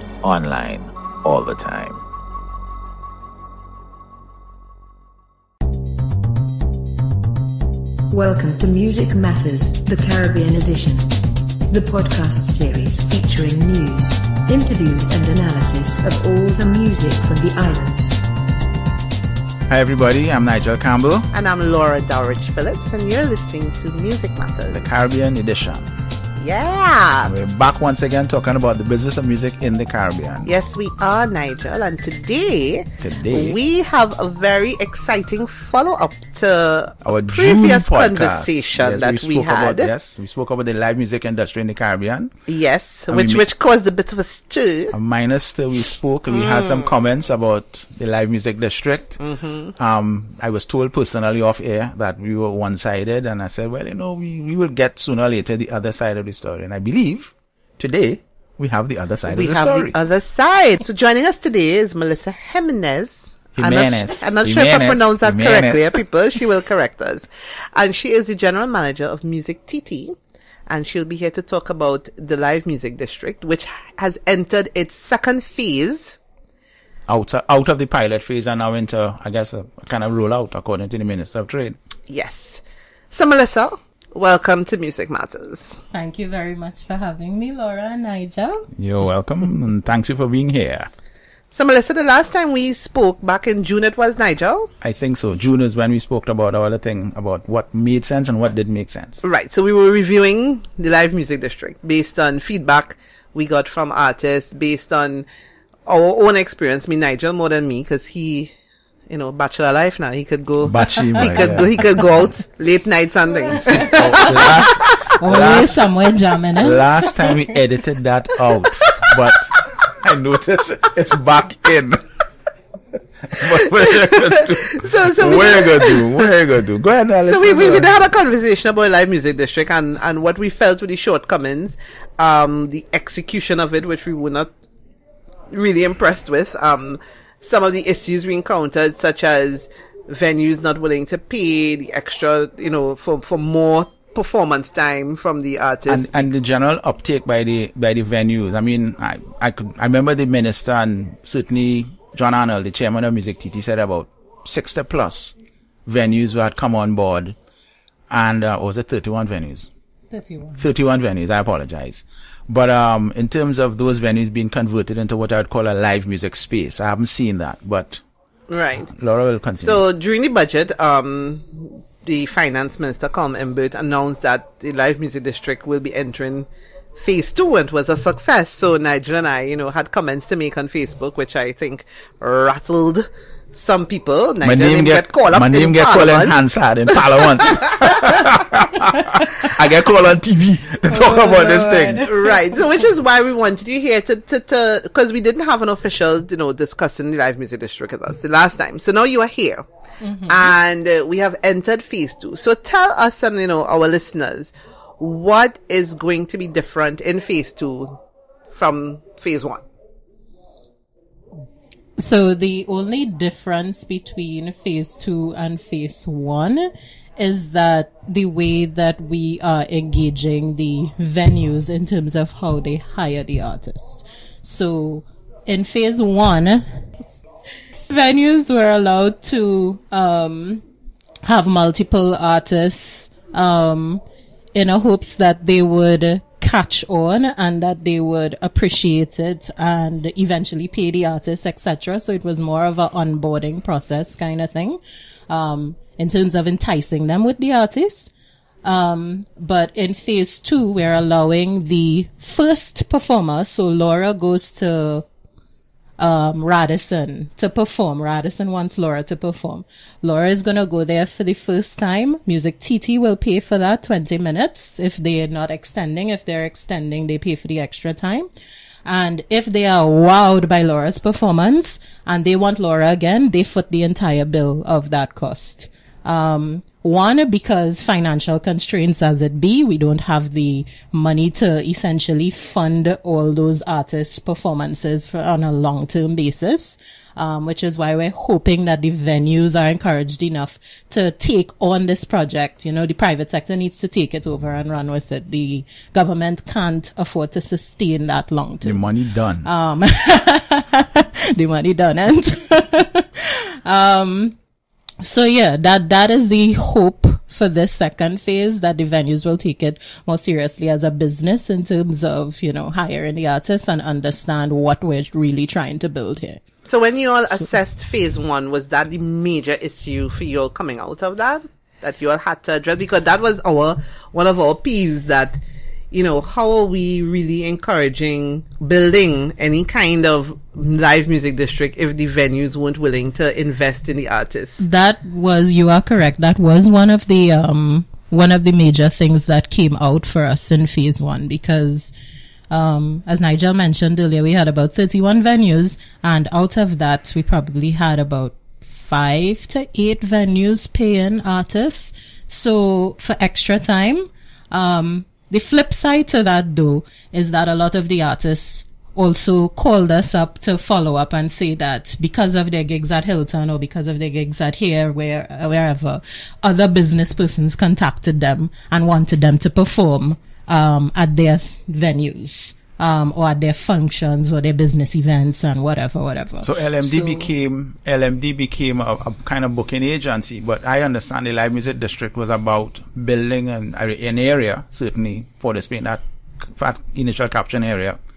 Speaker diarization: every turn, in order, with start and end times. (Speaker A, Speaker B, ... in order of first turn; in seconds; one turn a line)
Speaker A: 0.2-2.0
Speaker B: 8.1-18.2
Speaker A: 19.7-21.3
Speaker C: 21.3-24.9
Speaker A: 24.7-25.9
Speaker C: 26.4-27.3
Speaker A: 27.2-30.5
Speaker C: 30.4-39.9
Speaker A: 33.0-33.6
Speaker A: 37.0-42.3
Speaker C: 42.5-45.0
Speaker A: 43.1-43.5
Speaker A: 44.9-49.2
Speaker C: 46.3-46.9
Speaker C: 49.2-49.7
Speaker A: 49.8-60.0
Speaker C: 59.3-70.2
Speaker A: 63.6-66.0
Speaker C: 70.7-76.2
Speaker A: 77.1-81.8
Speaker C: 82.1-85.8
Speaker D: 85.9-88.7
Speaker A: 88.8-90.9
Speaker C: 91.5-94.7
Speaker A: 94.8-99.2
Speaker C: 99.2-105.3
Speaker C: 105.9-108.5
Speaker C: 109.1-114.7
Speaker A: 110.6-111.7
Speaker D: 113.5-117.5
Speaker A: 113.5-115.9
Speaker A: 116.6-122.0
Speaker A: 123.2-128.0
Speaker C: 123.6-126.3
Speaker C: 127.2-134.5
Speaker C: 135.5-146.3
Speaker A: 145.9-157.3
Speaker A: 158.1-159.7
Speaker D: 160.1-160.6
Speaker A: 160.6-168.0
Speaker C: 168.5-168.9
Speaker A: 168.9-169.8
Speaker C: 169.6-186.4
Speaker A: 184.4-192.1
Speaker C: 186.9-187.9
Speaker D: 190.9-192.6
Speaker C: 192.0-199.6
Speaker D: 200.0-200.5
Speaker C: 200.3-208.0
Speaker C: 208.5-209.6
Speaker D: 212.0-226.8
Speaker D: 227.9-230.6
Speaker D: 231.2-234.0
Speaker D: 234.6-248.1
Speaker D: 248.6-255.1
Speaker D: 256.0-268.3
Speaker D: 268.9-298.9
Speaker A: 298.6-299.5
Speaker D: 299.4-304.4
Speaker D: 305.0-316.4
Speaker C: 316.7-334.6
Speaker D: 334.6-341.9
Speaker D: 342.5-377.3
Speaker A: 376.4-388.0